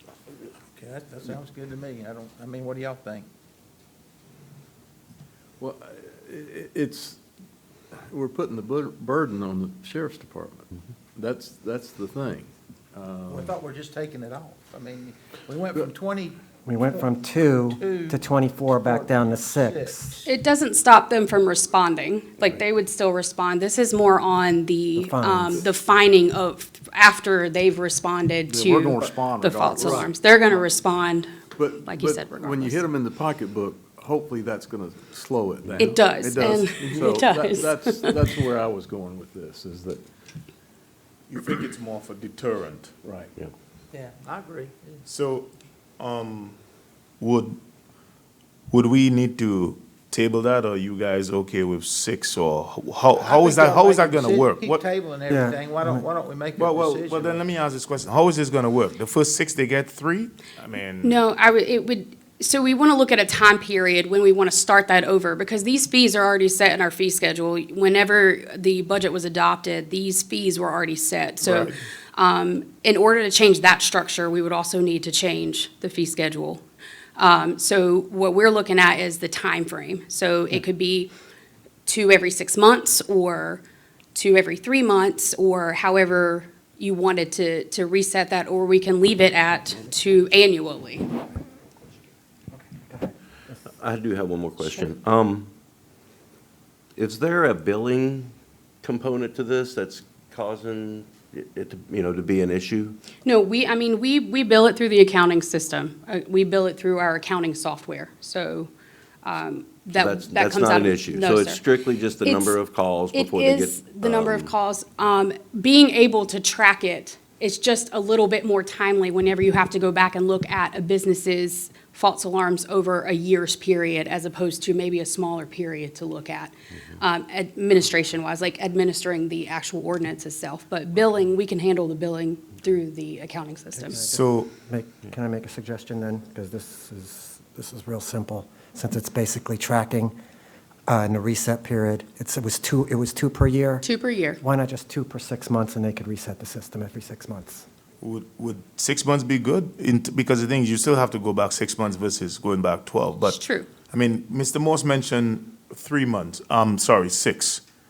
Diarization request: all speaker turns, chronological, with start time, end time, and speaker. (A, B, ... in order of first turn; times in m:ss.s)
0:00.7-0:03.2 A
0:05.6-0:07.2 B
0:08.1-0:13.5 B
0:13.3-0:16.4 A
0:16.6-0:20.2 C
0:17.7-0:18.2 A
0:18.8-0:20.3 A
0:20.2-0:32.8 D
0:25.0-0:25.7 C
0:28.5-0:30.7 B
0:31.6-0:40.0 B
0:35.8-0:38.3 D
0:41.3-0:42.9 E
0:43.0-0:43.3 B
0:43.9-0:45.0 A
0:45.0-0:46.6 E
0:47.2-0:47.6 E
0:48.7-0:54.8 E
0:53.1-0:57.4 A
0:55.3-0:56.0 C
0:56.6-1:01.2 E
1:01.0-1:16.6 D
1:17.2-1:21.1 D
1:21.8-1:23.6 D
1:24.1-1:31.0 D
1:32.6-1:33.6 C
1:33.8-1:35.5 F
1:37.0-1:43.0 F
1:43.2-1:48.7 D
1:49.2-1:52.6 D
1:49.9-1:54.5 F
1:53.1-2:14.0 D
2:13.8-2:20.1 C
2:14.1-2:14.5 E
2:20.9-2:23.9 C
2:23.8-2:24.4 D
2:24.4-2:27.6 C
2:28.0-2:33.4 E
2:33.2-2:33.7 D
2:33.9-2:37.6 E